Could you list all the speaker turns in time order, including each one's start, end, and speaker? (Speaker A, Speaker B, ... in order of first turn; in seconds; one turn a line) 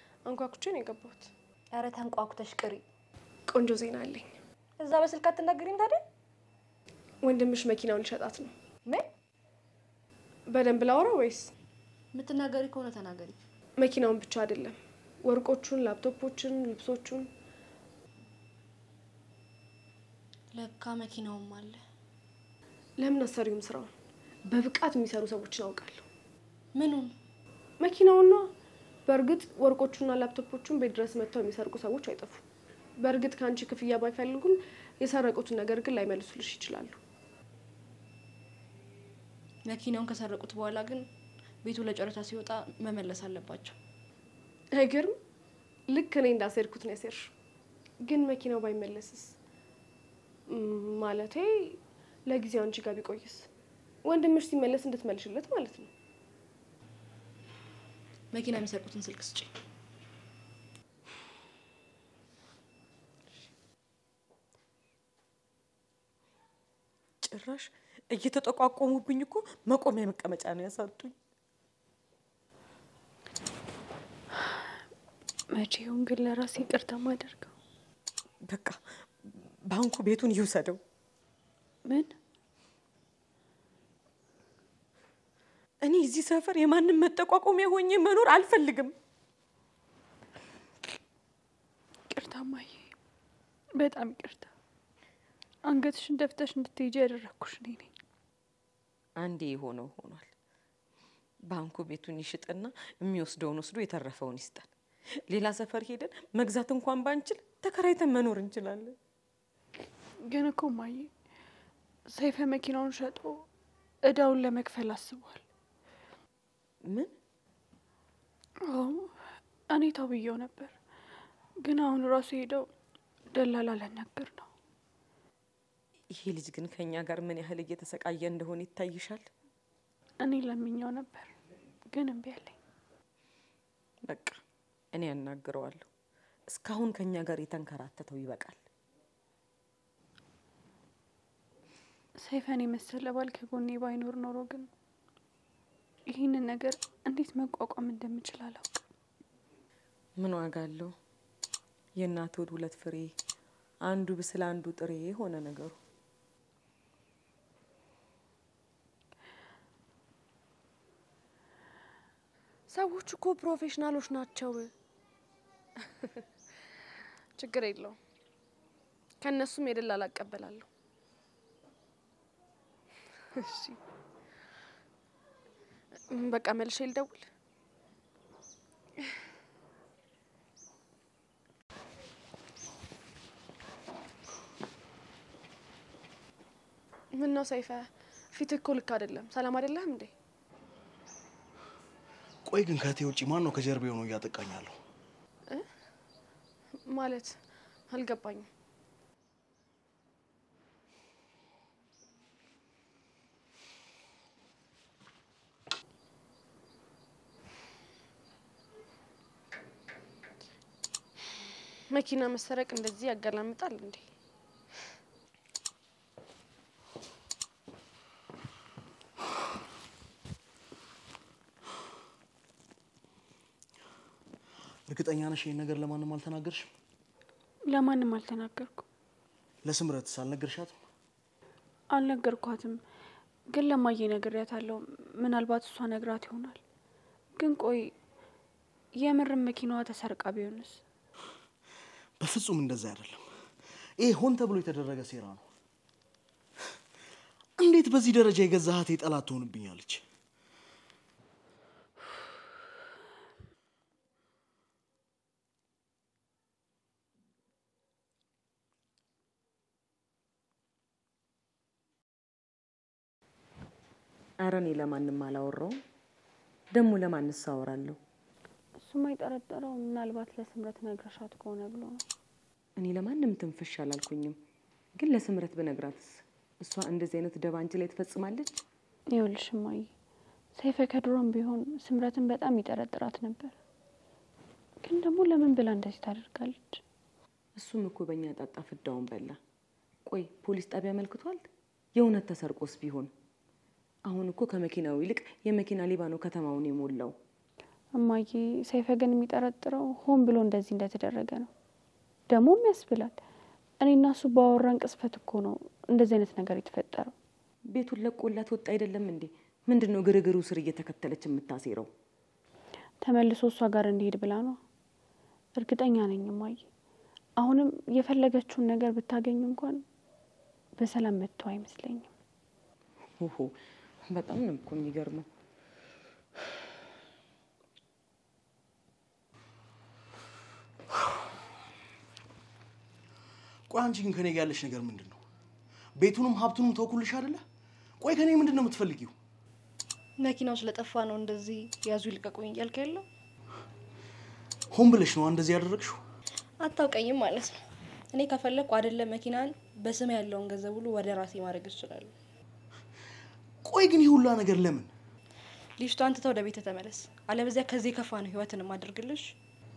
Speaker A: 0.2-1.3
Speaker B: 1.7-2.8
Speaker A: 3.5-4.3
Speaker B: 4.8-6.0
Speaker A: 7.2-8.5
Speaker A: 10.5-11.5
Speaker B: 12.1-13.4
Speaker A: 13.8-17.3
Speaker B: 20.5-21.8
Speaker A: 23.0-23.9
Speaker A: 24.5-26.1
Speaker B: 26.8-27.1
Speaker A: 27.8-28.5
Speaker A: 29.1-32.4
Speaker A: 33.0-37.0
Speaker B: 39.7-41.1
Speaker B: 41.6-43.8
Speaker A: 44.7-45.2
Speaker A: 45.9-47.3
Speaker A: 48.0-49.4
Speaker A: 50.5-53.5
Speaker A: 54.0-55.9
Speaker B: 58.3-59.5
Speaker C: 67.2-71.2
Speaker D: 74.4-74.6
Speaker D: 75.5-77.5
Speaker C: 78.4-80.8
Speaker D: 81.8-82.1
Speaker C: 85.8-88.9
Speaker D: 92.1-92.9
Speaker D: 93.8-94.5
Speaker D: 95.7-97.9
Speaker C: 99.2-100.3
Speaker C: 101.5-104.7
Speaker C: 105.3-109.0
Speaker D: 110.2-111.1
Speaker D: 112.1-113.5
Speaker D: 114.0-115.4
Speaker C: 116.9-117.1
Speaker D: 118.6-120.7
Speaker D: 121.6-122.7
Speaker D: 123.3-124.5
Speaker C: 126.1-129.3
Speaker D: 130.2-131.3
Speaker D: 131.9-132.6
Speaker C: 134.0-134.4
Speaker C: 134.9-135.9
Speaker C: 136.5-138.6
Speaker D: 142.2-144.7
Speaker D: 146.1-148.8
Speaker C: 150.2-150.9
Speaker C: 152.0-153.1
Speaker C: 153.8-155.8
Speaker A: 162.7-164.7
Speaker A: 167.4-168.0
Speaker A: 169.2-170.7
Speaker A: 173.3-173.8
Speaker A: 176.1-177.3
Speaker A: 187.1-190.1
Speaker E: 192.4-194.8
Speaker A: 196.8-197.4
Speaker A: 197.9-198.5
Speaker A: 211.9-214.1
Speaker E: 224.9-226.7
Speaker D: 227.7-228.8
Speaker E: 229.6-230.8
Speaker D: 231.9-232.8
Speaker D: 233.5-236.6
Speaker D: 237.4-237.9
Speaker D: 239.0-240.8
Speaker E: 242.2-243.3
Speaker E: 244.0-245.5
Speaker E: 247.6-250.0
Speaker C: 264.4-265.8
Speaker C: 266.7-268.0
Speaker D: 268.8-272.0
Speaker C: 272.8-274.4
Speaker C: 275.0-278.6
Speaker D: 279.1-279.9
Speaker D: 280.6-283.6
Speaker D: 284.8-286.8
Speaker C: 287.6-289.4
Speaker C: 290.1-293.1
Speaker C: 294.1-297.1
Speaker D: 297.9-301.5
Speaker D: 302.3-303.2
Speaker D: 303.8-307.1
Speaker C: 307.7-311.9
Speaker D: 313.0-314.6
Speaker D: 315.6-316.7
Speaker D: 317.4-319.8
Speaker D: 320.8-322.1
Speaker C: 323.2-323.5
Speaker C: 324.1-325.3
Speaker E: 333.7-335.2
Speaker E: 336.0-337.4
Speaker E: 338.0-339.1
Speaker B: 340.2-343.1
Speaker E: 344.7-346.0
Speaker B: 346.6-347.6
Speaker B: 348.1-352.1
Speaker E: 353.6-354.9
Speaker B: 355.8-359.3